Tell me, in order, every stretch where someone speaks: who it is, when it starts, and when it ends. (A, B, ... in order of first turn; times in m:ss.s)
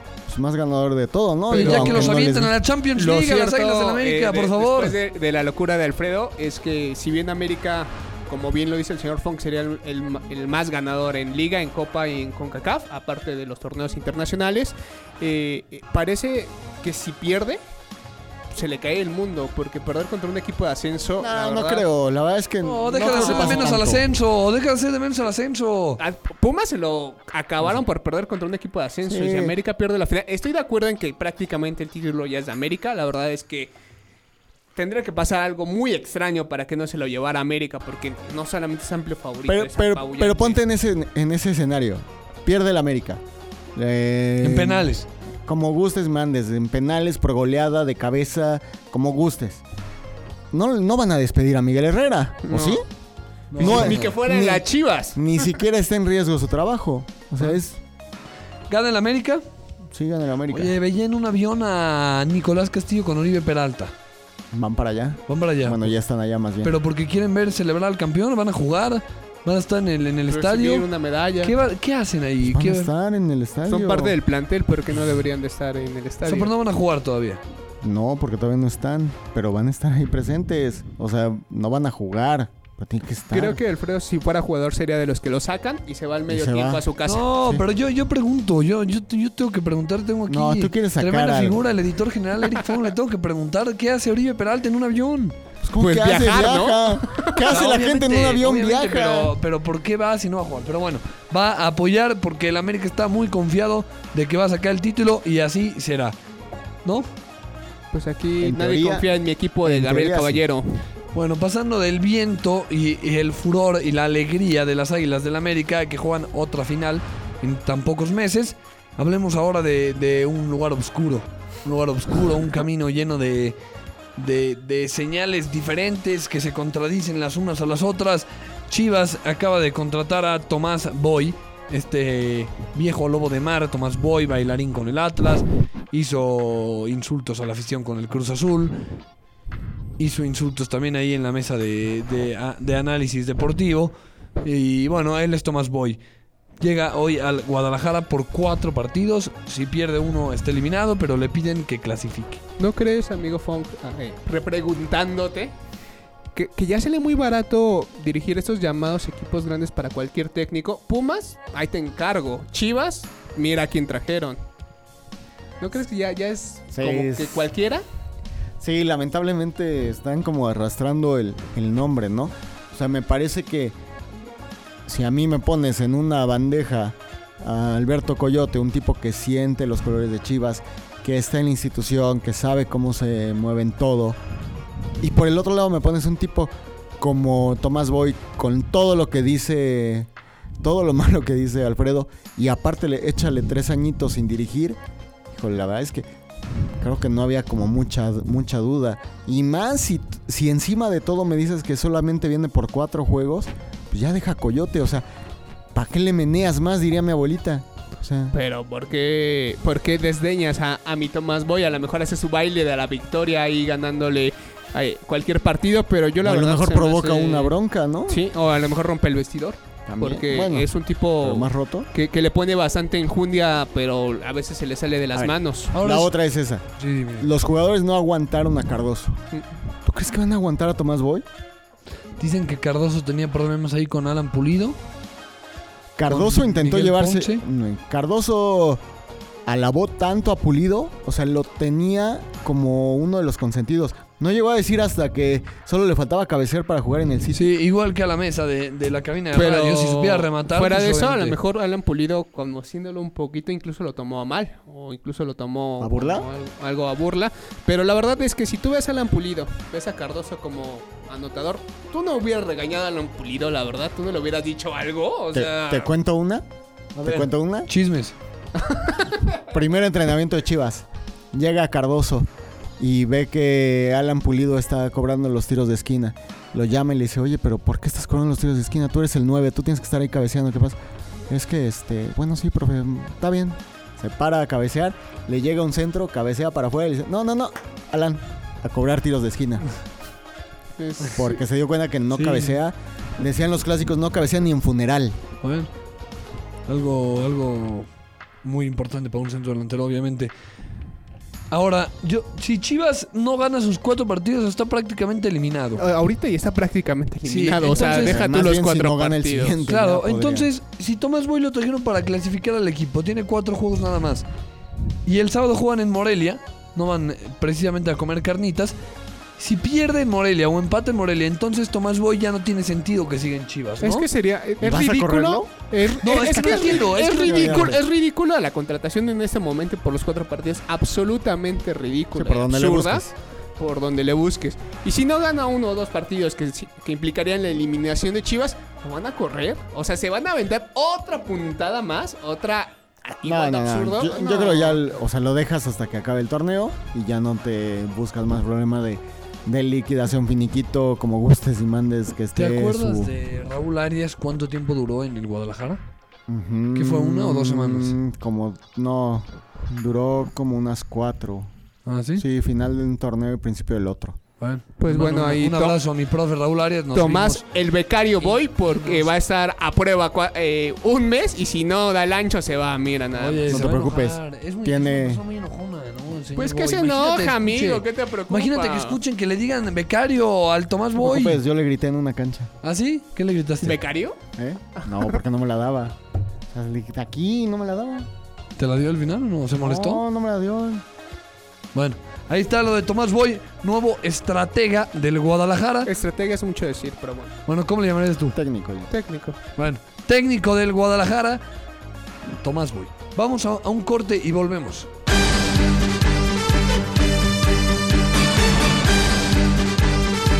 0:00.3-0:02.5 A
0:01.5-0:02.2 B
0:01.5-0:05.0 C
0:03.0-0:17.6 B
0:18.5-0:21.9 B
0:21.2-0:24.1 A
0:22.6-0:26.0 C
0:22.8-0:23.8 B
0:26.0-0:33.7 B
0:29.0-0:29.6 A
0:34.8-0:40.6 B
0:39.5-0:43.2 A
0:43.7-0:44.9 A
0:44.4-0:45.1 C
0:45.4-0:49.6 A
0:50.5-0:52.8 A
0:52.4-0:52.8 B
0:53.5-0:54.1 C
0:53.6-0:55.5 B
0:53.6-0:57.8 A
0:58.7-0:59.4 C
0:59.9-1:00.7 A
1:00.5-1:03.9 C
1:04.5-1:06.7 A
1:05.3-1:05.9 C
1:06.6-1:10.8 C
1:10.3-1:11.5 B
1:11.4-1:12.9 C
1:12.4-1:14.2 A
1:13.7-1:16.5 B
1:16.2-1:17.4 C
1:17.8-1:23.6 A
1:23.3-1:27.2 B
1:26.3-1:26.8 A
1:27.0-1:35.3 C
1:30.3-1:31.6 A
1:35.6-1:39.3 A
1:35.8-1:37.5 B
1:37.5-1:46.2 C
1:47.9-1:50.8 B
1:48.4-1:49.1 A
1:49.6-1:50.4 A
1:51.1-2:03.6 C
2:04.2-2:18.8 C
2:20.0-2:26.0 C
2:26.6-2:32.4 C
2:32.6-2:35.5 B
2:36.3-2:44.4 B
2:45.6-2:47.8 B
2:46.7-2:47.5 A
2:48.6-2:53.8 A
2:54.8-3:04.2 A
3:05.0-3:10.1 A
3:10.6-3:14.8 A
3:15.3-3:16.1 A
3:16.7-3:25.0 A
3:25.7-3:28.3 A
3:28.3-3:37.5 B
3:36.2-3:38.2 A
3:38.1-3:45.7 B
3:39.9-3:40.7 A
3:41.2-3:41.9 A
3:45.1-3:46.6 A
3:45.7-3:46.1 C
3:46.8-3:47.3 C
3:47.2-3:49.2 A
3:49.8-3:51.2 A
3:52.2-3:54.8 C
3:56.0-3:58.8 A
3:56.1-3:57.4 C
3:59.4-4:07.5 A
4:07.3-4:11.4 C
4:09.3-4:25.9 B
4:15.8-4:16.3 A
4:25.3-4:26.4 A
4:27.0-4:28.1 C
4:27.0-4:27.7 A
4:28.6-4:29.4 B
4:29.5-4:32.3 A
4:32.8-4:40.8 A
4:41.3-4:49.7 A
4:50.8-4:51.4 B
4:51.1-4:55.2 A
4:52.1-4:52.6 C
4:55.4-4:55.7 C
4:56.7-4:57.9 C
4:58.4-5:00.3 C
5:01.5-5:05.8 C
5:05.8-5:09.6 B
5:07.2-5:08.2 C
5:07.7-5:10.5 A
5:09.7-5:14.2 C
5:15.0-5:18.8 C
5:19.4-5:24.1 C
5:23.8-5:44.8 B
5:24.6-5:27.8 A
5:26.0-5:27.8 C
5:32.1-5:33.1 A
5:43.2-5:53.1 A
5:52.4-5:55.8 C
5:56.3-6:01.5 A
5:56.7-5:58.0 C
6:01.8-6:02.2 C
6:02.2-6:04.2 A
6:04.4-6:07.4 C
6:04.8-6:05.8 B
6:06.9-6:13.6 B
6:08.2-6:09.1 C
6:13.2-6:21.4 C
6:13.5-6:15.2 A
6:16.4-6:19.0 B
6:21.0-6:22.5 A
6:22.6-6:23.8 C
6:23.6-6:24.2 B
6:24.4-6:26.0 A
6:24.8-6:25.1 B
6:26.5-6:28.1 A
6:28.6-6:30.0 C
6:29.6-6:30.8 A
6:31.7-6:35.9 C
6:35.8-6:37.4 B
6:37.5-6:38.4 C
6:38.3-6:38.9 A
6:38.9-6:39.4 B
6:39.6-6:41.4 C
6:42.4-6:44.9 C